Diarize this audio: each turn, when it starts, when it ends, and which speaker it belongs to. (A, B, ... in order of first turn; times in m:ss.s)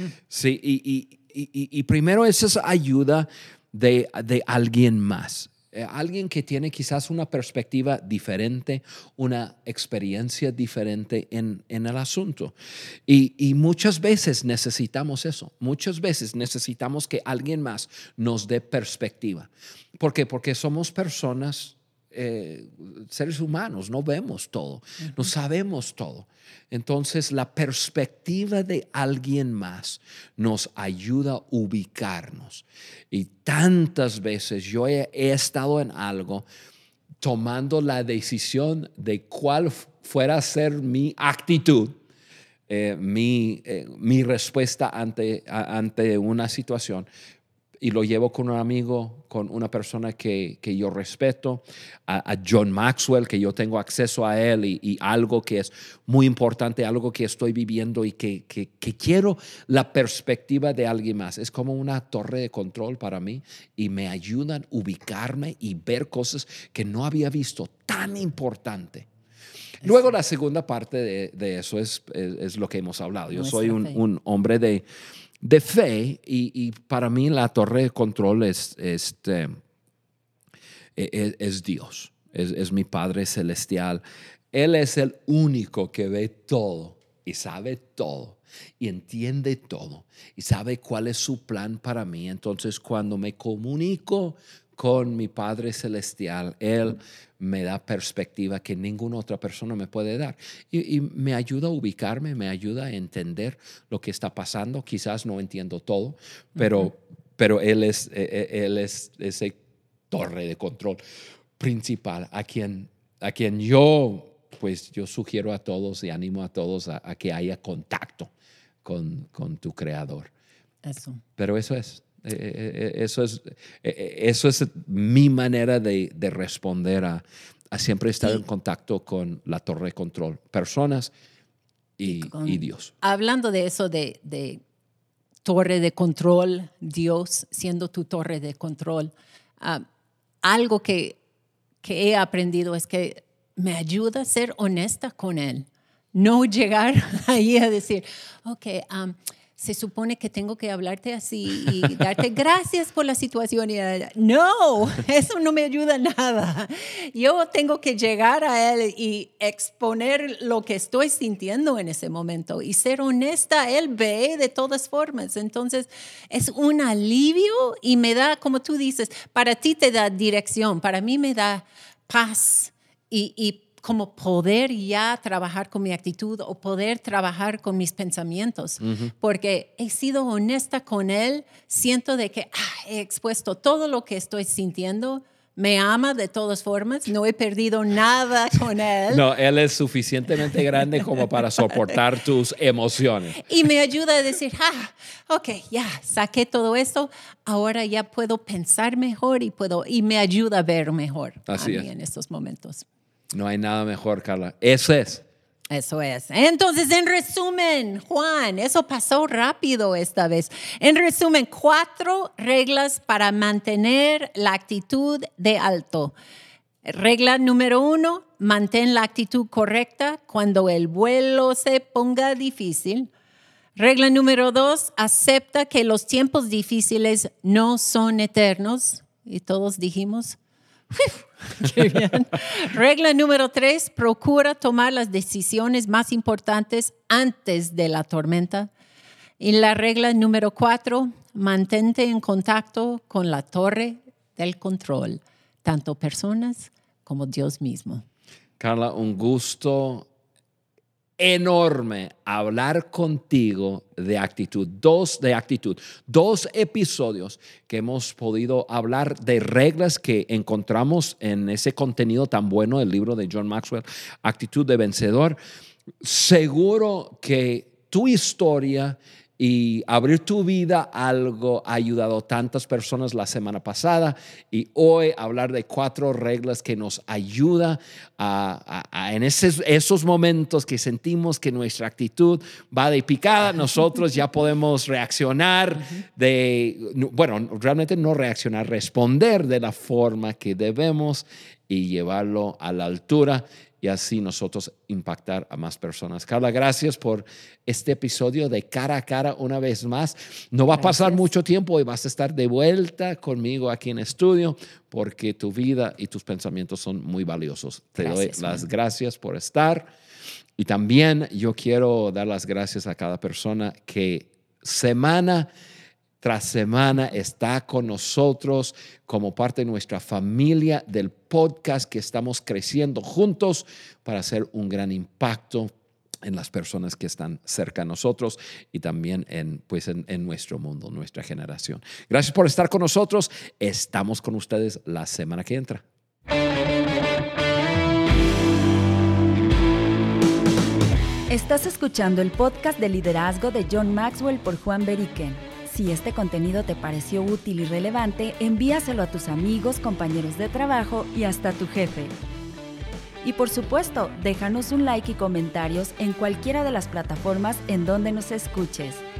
0:00.3-0:12.5 A
0:13.1-0:36.4 A
0:37.2-0:42.0 A
0:42.7-0:47.1 A
0:47.8-1:09.1 A
1:09.8-1:14.8 A
1:09.8-1:10.1 B
1:13.3-1:14.0 B
1:15.4-1:19.6 A
1:21.0-1:49.6 A
1:50.1-1:51.0 A
1:51.6-1:58.3 A
1:58.8-2:00.3 A
2:00.8-2:01.2 B
2:01.4-2:11.1 A
2:12.0-2:12.9 A
2:12.0-2:14.6 B
2:15.4-2:19.8 B
2:20.4-2:21.2 B
2:21.8-3:09.2 B
2:58.8-2:59.1 A
3:09.1-3:13.4 A
3:13.4-3:22.8 B
3:21.5-3:21.9 A
3:23.3-3:25.2 A
3:25.7-3:36.1 B
3:36.8-3:43.1 B
3:43.8-3:50.4 B
3:50.9-3:58.7 B
3:59.4-4:08.0 B
4:08.6-4:10.1 A
4:11.2-4:25.4 A
4:26.0-5:09.9 A
5:00.7-5:01.3 B
5:08.0-5:08.7 B
5:10.6-5:15.5 A
5:16.2-5:25.7 A
5:26.2-5:35.8 A
5:41.3-5:52.1 C
5:53.2-5:59.0 C